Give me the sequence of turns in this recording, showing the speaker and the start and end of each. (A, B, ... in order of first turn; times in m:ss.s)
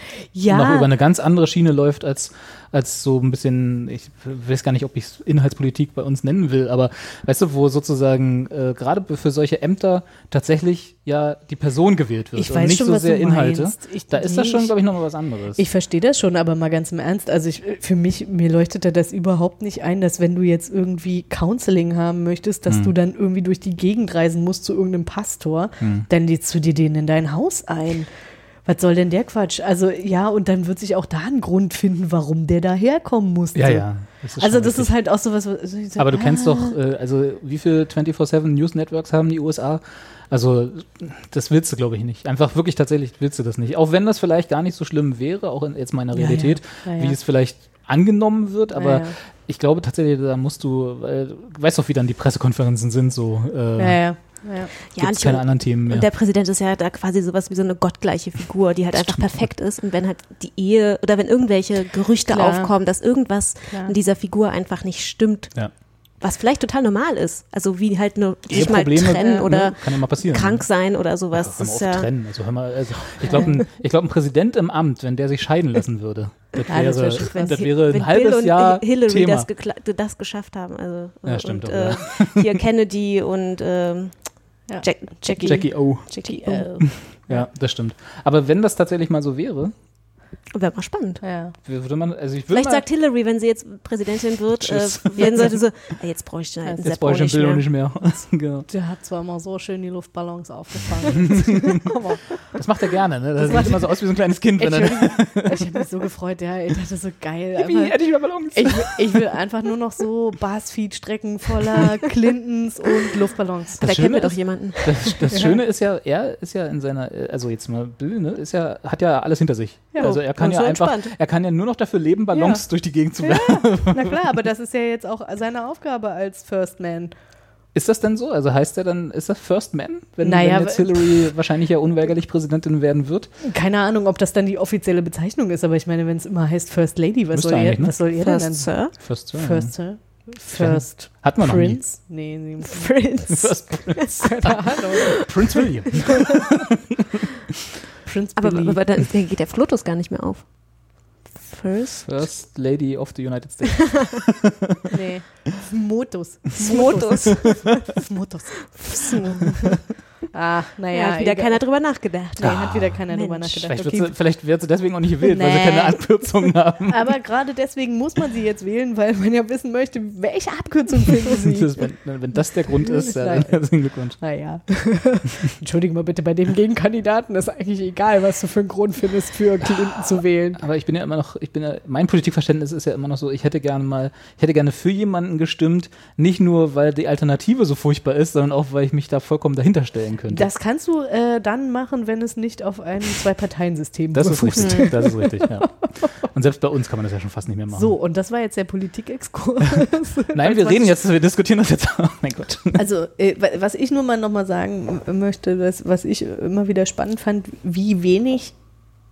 0:00.3-0:00.9 A
0:00.5-0:15.6 B
0:12.4-0:14.8 A
0:15.5-0:36.8 A
0:22.7-0:22.9 B
0:25.8-0:26.1 B
0:33.5-0:35.2 B
0:36.0-0:56.1 B
0:46.1-0:47.2 A
0:48.7-0:49.2 A
0:53.8-0:54.7 A
0:54.9-1:12.3 C
0:58.9-0:59.5 B
1:02.3-1:03.0 A
1:03.7-1:03.9 A
1:08.5-1:19.5 B
1:13.2-1:13.6 A
1:16.5-1:27.3 C
1:16.7-1:17.7 A
1:21.2-1:22.4 B
1:24.7-1:27.5 A
1:25.4-1:29.7 B
1:30.5-1:31.3 C
1:31.2-1:31.5 A
1:31.6-1:32.8 B
1:32.5-1:37.9 C
1:34.6-1:35.6 B
1:35.2-1:35.5 A
1:36.8-1:38.7 B
1:38.7-1:42.6 A
1:42.5-1:45.6 B
1:43.4-1:54.0 A
1:47.6-1:49.2 B
1:53.8-2:04.1 B
1:53.8-1:55.3 C
1:55.3-1:55.6 A
1:59.9-2:00.2 A
2:00.0-2:01.1 C
2:02.3-2:07.1 A
2:07.7-2:13.3 B
2:10.2-2:11.3 A
2:13.4-2:23.1 A
2:17.3-2:21.9 B
2:18.2-2:19.0 C
2:22.6-2:24.6 C
2:23.3-2:26.5 B
2:24.2-2:25.4 A
2:28.0-2:28.8 A
2:28.4-2:32.3 C
2:32.0-2:34.5 B
2:34.9-2:39.8 A
2:36.6-2:37.9 C
2:36.8-2:37.2 B
2:38.8-2:39.5 C
2:40.3-2:44.4 A
2:40.9-2:43.7 C
2:42.4-2:43.1 B
2:43.6-2:47.1 B
2:45.3-2:46.2 A
2:45.4-2:46.3 C
2:46.9-3:00.6 A
2:51.4-2:54.7 B
3:00.6-3:10.5 B
3:10.3-3:15.6 A
3:14.1-3:17.9 B
3:14.6-3:15.2 C
3:17.7-3:21.0 A
3:20.3-3:22.8 B
3:22.8-3:28.7 A